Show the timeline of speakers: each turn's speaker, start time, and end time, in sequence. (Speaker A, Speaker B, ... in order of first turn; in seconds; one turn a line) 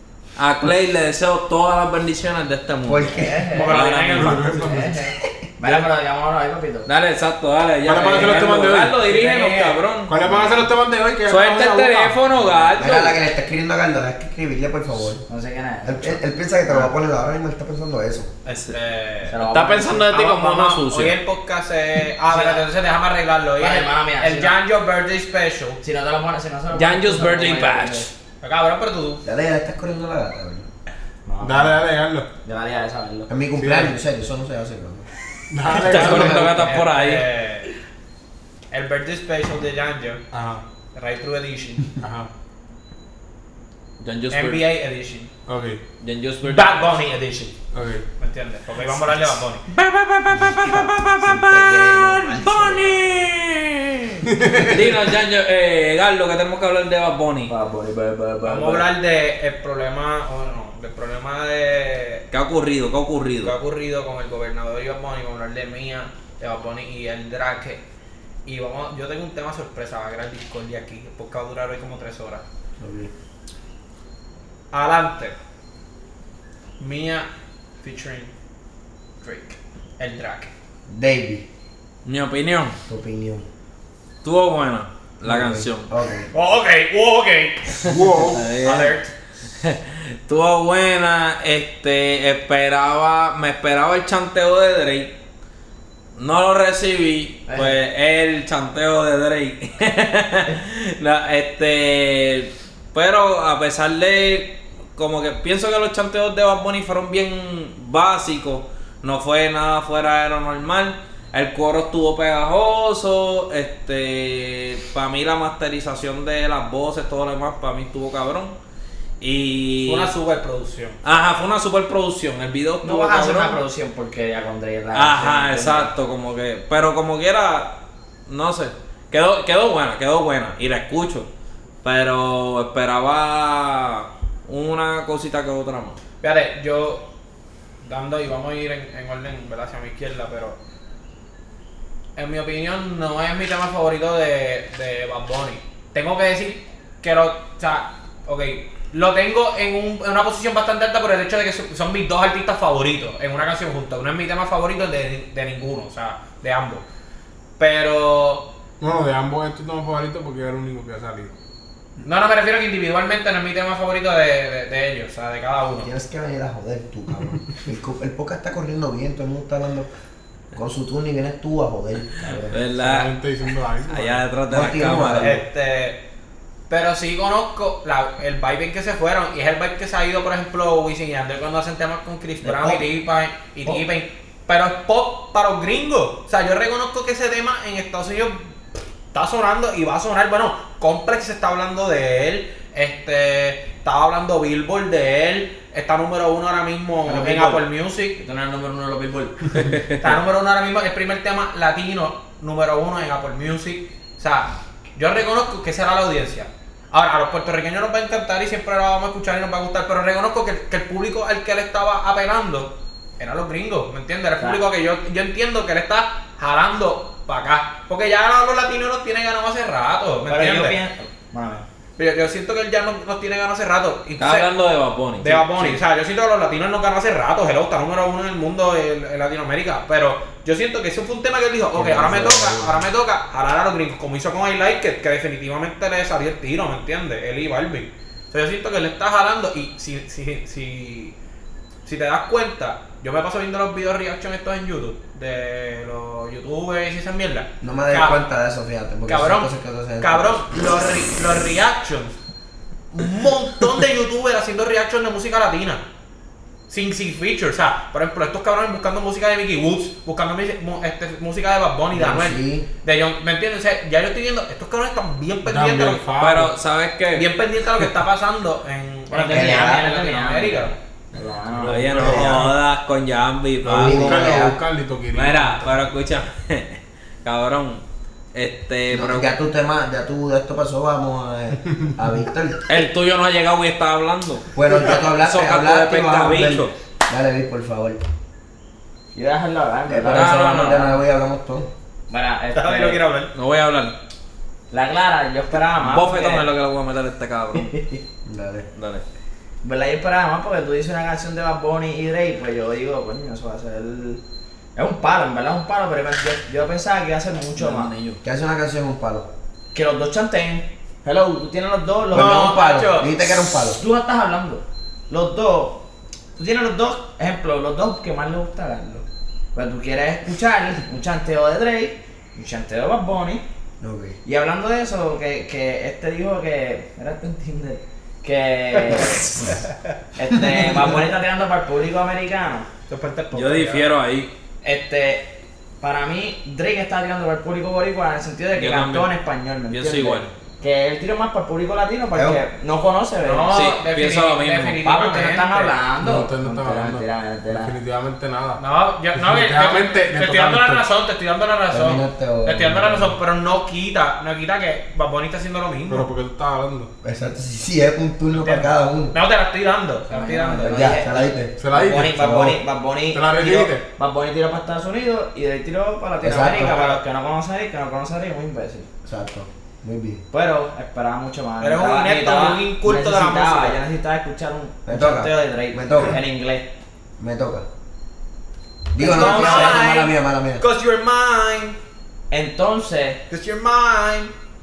Speaker A: 0.3-4.4
Speaker B: 2.8-3.4
Speaker C: 3.2-6.9
Speaker D: 3.5-4.5
Speaker E: 4.2-5.0
Speaker A: 6.8-10.2
Speaker E: 7.8-9.0
Speaker C: 8.0-8.5
Speaker C: 9.0-10.5
Speaker E: 10.1-12.2
Speaker A: 11.3-13.2
Speaker C: 12.3-12.8
Speaker B: 12.8-15.2
Speaker C: 15.3-16.2
Speaker B: 15.8-18.3
Speaker D: 18.4-19.4
Speaker C: 19.3-20.1
Speaker A: 19.4-21.1
Speaker D: 20.1-25.8
Speaker C: 22.3-22.7
Speaker C: 23.6-24.6
Speaker C: 25.8-28.1
Speaker A: 26.7-28.1
Speaker D: 28.4-29.2
Speaker B: 29.2-30.7
Speaker C: 31.2-31.8
Speaker E: 31.4-32.3
Speaker C: 32.4-33.3
Speaker B: 33.3-35.1
Speaker E: 33.6-33.9
Speaker E: 35.5-36.6
Speaker D: 35.6-37.7
Speaker A: 35.7-37.3
Speaker B: 35.9-36.6
Speaker D: 38.7-40.2
Speaker E: 40.3-40.6
Speaker D: 40.9-41.9
Speaker E: 42.0-42.3
Speaker A: 44.0-44.7
Speaker D: 44.3-45.3
Speaker E: 45.5-45.8
Speaker A: 46.0-46.9
Speaker D: 46.4-47.5
Speaker E: 47.7-48.0
Speaker D: 48.2-49.6
Speaker A: 49.7-57.5
Speaker B: 50.3-52.9
Speaker E: 54.3-55.1
Speaker C: 57.5-58.9
Speaker D: 58.4-62.3
Speaker A: 62.3-63.5
Speaker D: 63.4-67.8
Speaker D: 68.5-72.5
Speaker B: 72.8-73.1
Speaker D: 74.7-75.3
Speaker D: 76.8-77.3
Speaker D: 77.8-78.3
Speaker D: 79.2-80.5
Speaker B: 80.9-81.5
Speaker A: 82.0-82.8
Speaker B: 82.9-83.5
Speaker A: 84.2-85.9
Speaker B: 85.2-86.3
Speaker D: 86.3-87.8
Speaker A: 87.8-89.0
Speaker E: 87.9-88.4
Speaker D: 88.6-89.1
Speaker A: 89.6-95.1
Speaker A: 96.2-118.5
Speaker C: 97.5-97.8
Speaker A: 119.2-120.1
Speaker D: 119.8-121.0
Speaker A: 121.0-123.6
Speaker C: 122.8-125.9
Speaker A: 124.9-131.3
Speaker A: 131.8-136.0
Speaker D: 136.2-137.1
Speaker D: 137.8-140.6
Speaker D: 142.2-156.8
Speaker D: 157.6-158.5
Speaker E: 158.8-161.3
Speaker D: 162.0-165.9
Speaker B: 165.8-169.9
Speaker B: 170.5-172.6
Speaker A: 172.5-173.1
Speaker E: 172.7-174.3
Speaker A: 173.9-175.4
Speaker B: 174.5-175.4
Speaker D: 175.2-176.0
Speaker D: 176.7-188.5
Speaker C: 182.4-182.9
Speaker D: 189.1-198.2
Speaker C: 197.1-197.7
Speaker C: 198.2-199.6
Speaker A: 199.6-200.0
Speaker D: 200.0-220.8
Speaker C: 220.3-221.7
Speaker D: 222.0-224.5
Speaker A: 224.2-225.8
Speaker D: 225.2-241.2
Speaker A: 232.1-232.7
Speaker D: 241.8-248.2
Speaker B: 247.6-250.5
Speaker D: 249.1-252.2
Speaker D: 252.9-255.8
Speaker D: 256.7-266.1
Speaker B: 261.9-262.6
Speaker E: 265.5-266.6
Speaker A: 266.2-267.3
Speaker D: 267.1-270.8
Speaker C: 269.1-272.0
Speaker B: 269.3-269.8
Speaker E: 271.5-272.6
Speaker A: 271.7-274.5
Speaker B: 272.0-272.5
Speaker B: 273.6-274.6
Speaker E: 273.7-275.7
Speaker A: 275.1-277.8
Speaker A: 278.3-279.3
Speaker B: 278.9-282.6
Speaker A: 282.7-286.7
Speaker B: 284.5-288.0
Speaker C: 289.1-291.0
Speaker B: 289.9-291.7
Speaker A: 290.1-290.9
Speaker C: 292.1-293.0
Speaker D: 292.5-293.3
Speaker A: 293.3-293.9
Speaker C: 294.7-296.5
Speaker A: 295.8-297.7
Speaker C: 297.5-298.0
Speaker B: 298.2-298.7
Speaker A: 298.8-299.0
Speaker C: 299.6-304.2
Speaker C: 304.8-307.9
Speaker A: 307.6-308.2
Speaker B: 308.2-309.3
Speaker C: 309.7-312.5
Speaker B: 312.1-313.8
Speaker D: 312.1-313.1
Speaker C: 313.7-315.8
Speaker C: 316.4-323.4
Speaker B: 323.8-324.2
Speaker C: 324.2-329.3
Speaker C: 330.2-332.7
Speaker B: 330.3-331.0
Speaker D: 332.9-333.9
Speaker A: 333.3-334.3
Speaker C: 334.6-343.6
Speaker A: 338.6-339.1
Speaker A: 339.7-340.3
Speaker B: 342.1-342.4
Speaker D: 343.2-345.8
Speaker A: 343.5-344.8
Speaker C: 344.9-347.7
Speaker E: 346.0-348.6
Speaker D: 348.6-356.1
Speaker E: 349.1-350.9
Speaker B: 351.7-353.2
Speaker E: 355.9-356.9
Speaker B: 357.0-359.1
Speaker D: 358.3-361.0
Speaker C: 360.1-368.9
Speaker B: 360.7-362.6
Speaker E: 361.6-362.5
Speaker E: 363.1-363.9
Speaker B: 366.2-366.8
Speaker D: 366.4-367.0
Speaker B: 369.1-370.2
Speaker C: 370.3-376.7
Speaker D: 371.6-373.8
Speaker B: 374.9-376.2
Speaker B: 377.2-377.7
Speaker B: 378.9-380.6
Speaker C: 379.0-379.8
Speaker D: 379.0-381.8
Speaker C: 382.3-383.2
Speaker D: 383.3-384.3